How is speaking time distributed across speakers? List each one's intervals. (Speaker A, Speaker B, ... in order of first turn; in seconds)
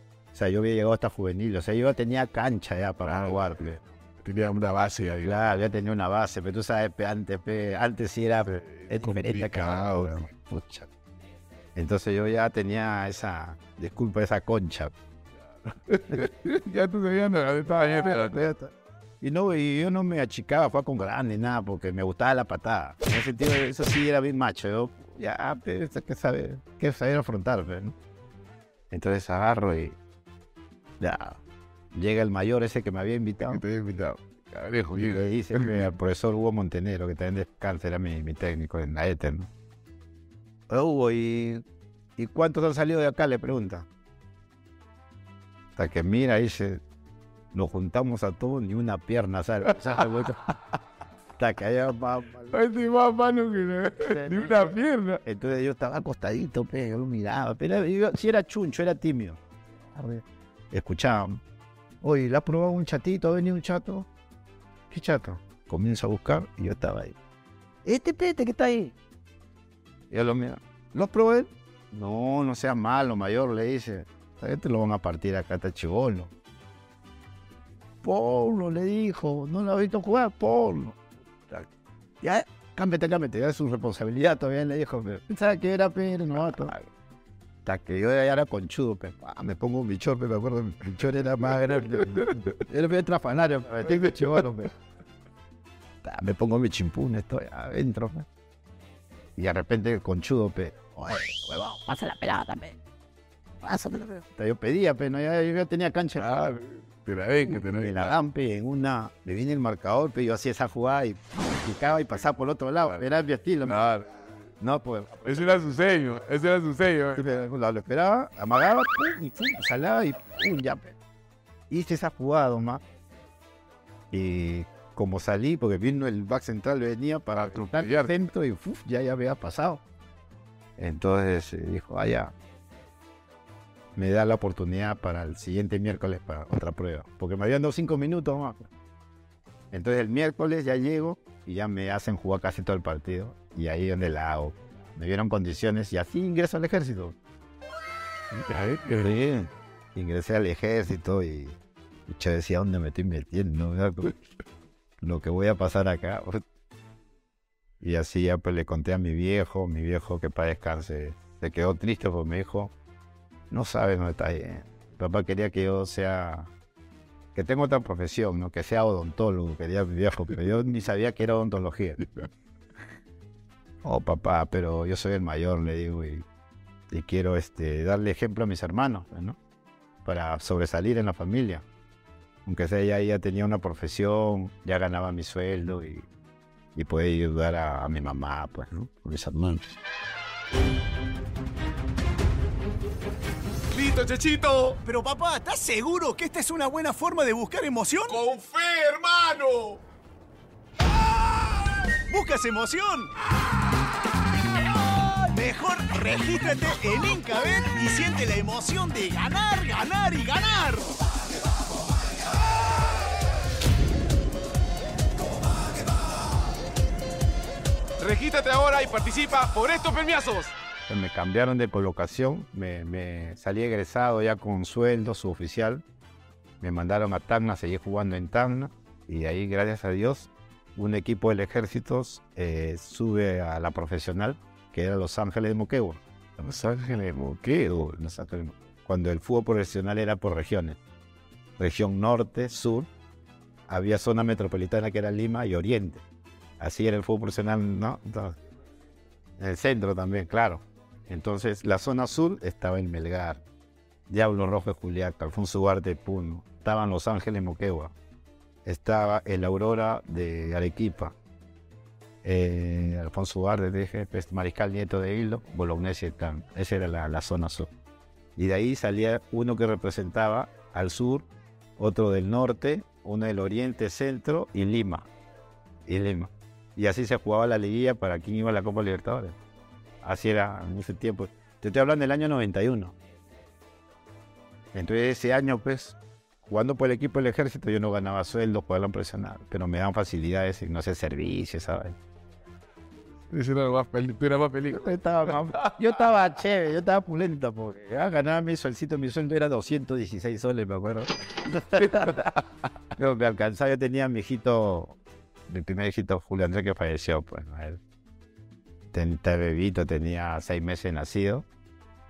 Speaker A: 0.3-3.8, 5.2-10.9, 11.7-14.9, 17.9-27.9, 28.9-30.0, 31.0-31.4, 31.9-33.6, 35.0-39.5, 40.7-41.6, 42.2-43.9, 45.8-46.8, 47.5-50.4, 51.4-52.6, 54.0-59.4, 59.9-61.4, 62.0-64.1, 64.9-67.2, 67.8-68.9, 70.1-76.3, 78.0-81.0, 82.2-86.8, 87.6-94.7, 96.0-98.3, 99.3-102.8, 103.6-106.2, 107.5-113.8, 114.6-115.6, 117.2-121.0, 121.7-122.8, 124.1-129.8, 130.8-132.3, 133.9-138.7, 139.7-147.2, 149.0-154.1, 155.0-156.4, 157.8-162.7, 163.5-166.5, 167.3-172.1, 173.8-176.2, 176.9-179.4, 180.0-181.7, 182.4-186.1, 186.7-189.8, 220.8-225.8, 226.6-236.0, 237.6-240.8, 241.6-242.9, 243.7-246.0, 246.6-248.4, 249.4-253.4, 254.1-257.9, 258.6-261.1, 262.2-267.7, 268.4-275.1, 275.9-279.4, 280.0-282.9, 284.7-292.0, 294.7-302.3, 302.9-307.8, 308.9-311.4
Speaker B: 3.0-3.4, 4.2-5.3, 8.5-10.1, 15.8-18.4, 33.4-35.9, 50.0-50.5, 52.5-55.2, 92.0-92.5, 94.0-94.4, 106.2-108.2, 113.6-114.1, 115.2-117.2, 127.3-128.1, 148.3-149.4, 193.7-194.8, 198.1-199.8, 218.0-220.5, 236.4-237.8, 293.3-295.7, 301.7-302.4
Speaker C: 194.8-198.2, 201.9-203.1, 205.3-211.0